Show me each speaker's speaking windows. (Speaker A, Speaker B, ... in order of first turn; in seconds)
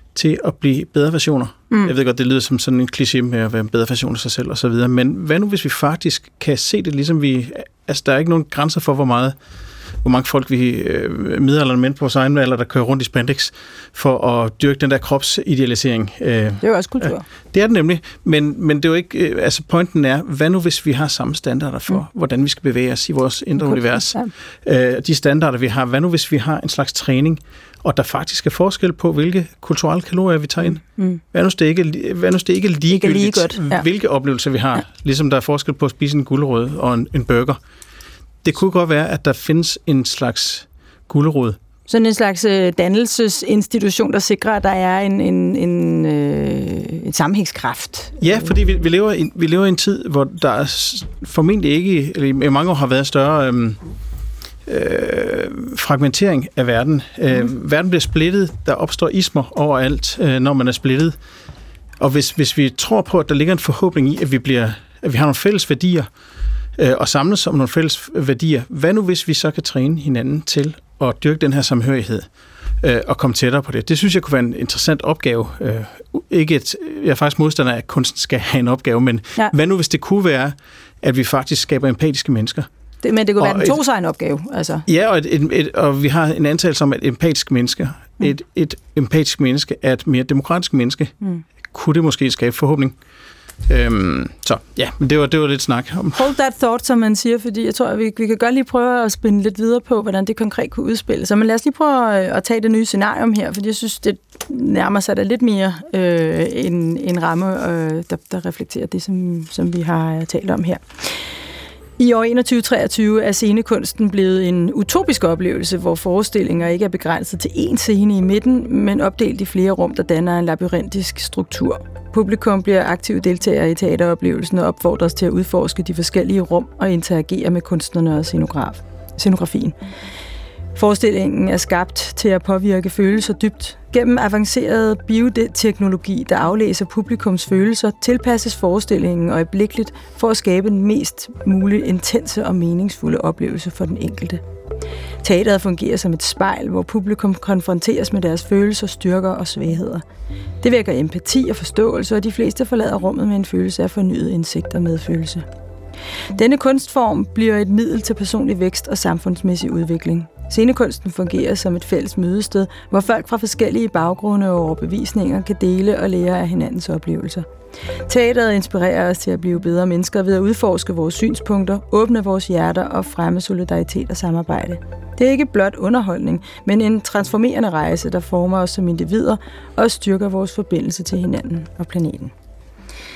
Speaker A: 0.1-9.4, 10.0-37.6, 38.4-41.6, 48.2-53.8, 54.6-61.2, 62.0-66.1, 66.8-72.3, 72.8-82.7, 83.4-83.8, 84.8-91.1, 91.7-93.0, 93.6-96.3
Speaker B: 16.6-17.2, 23.6-24.3, 30.7-31.2, 32.9-33.8, 41.9-48.5, 83.0-84.8, 96.1-111.3, 112.0-129.8, 130.7-144.4, 145.2-150.0, 150.6-155.4, 156.3-167.4, 168.1-182.3